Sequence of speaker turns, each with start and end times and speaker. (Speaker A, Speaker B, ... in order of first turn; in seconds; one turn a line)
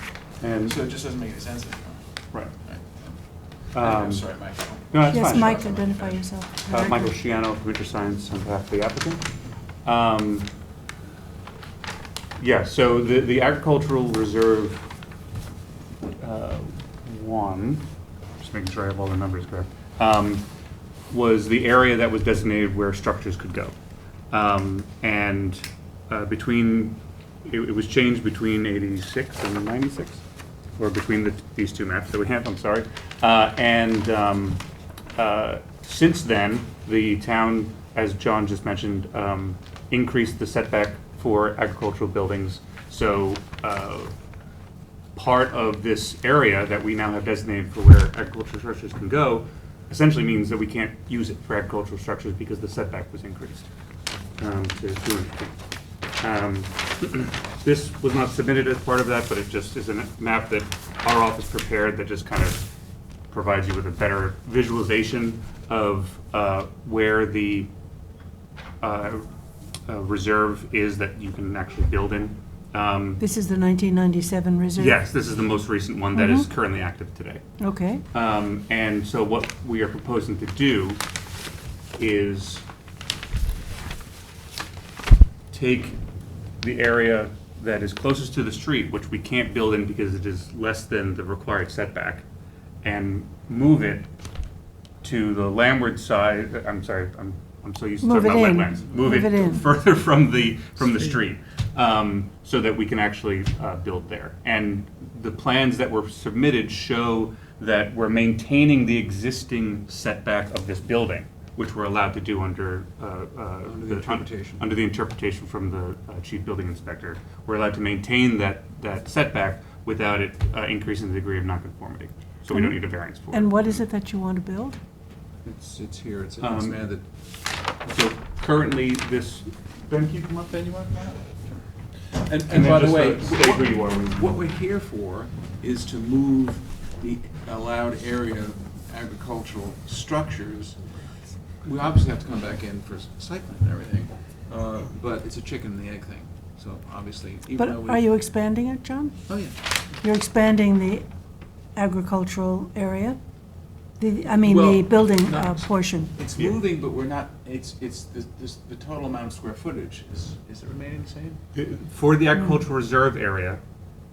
Speaker A: 0.4-0.8
Speaker B: 0.6-6.2
Speaker A: 3.7-4.3
Speaker A: 4.9-5.9
Speaker C: 5.1-7.1
Speaker A: 6.7-9.2
Speaker A: 9.8-10.5
Speaker A: 12.4-14.8
Speaker A: 16.1-17.9
Speaker A: 18.4-20.4
Speaker A: 21.1-23.7
Speaker A: 24.3-30.2
Speaker A: 30.8-34.6
Speaker A: 35.2-44.1
Speaker A: 45.1-53.7
Speaker A: 54.4-55.5
Speaker A: 56.2-62.6
Speaker A: 63.3-67.7
Speaker A: 68.8-69.2
Speaker A: 69.8-73.2
Speaker C: 73.2-75.0
Speaker A: 74.8-77.4
Speaker C: 76.1-76.5
Speaker C: 77.6-78.0
Speaker A: 78.1-81.0
Speaker A: 82.0-82.6
Speaker A: 85.5-86.0
Speaker A: 86.6-92.2
Speaker A: 92.8-94.1
Speaker A: 95.0-123.8
Speaker C: 98.0-99.7
Speaker B: 113.7-114.8
Speaker C: 122.5-124.8
Speaker B: 125.4-127.0
Speaker A: 126.4-126.8
Speaker A: 127.8-131.1
Speaker B: 130.9-131.6
Speaker B: 132.1-140.9
Speaker A: 132.5-134.3
Speaker B: 141.6-148.1
Speaker C: 147.6-149.2
Speaker B: 149.3-149.6
Speaker C: 150.0-151.1
Speaker C: 151.8-153.2
Speaker C: 154.0-156.1
Speaker B: 154.4-161.4
Speaker A: 161.5-163.6
Speaker C: 162.3-162.6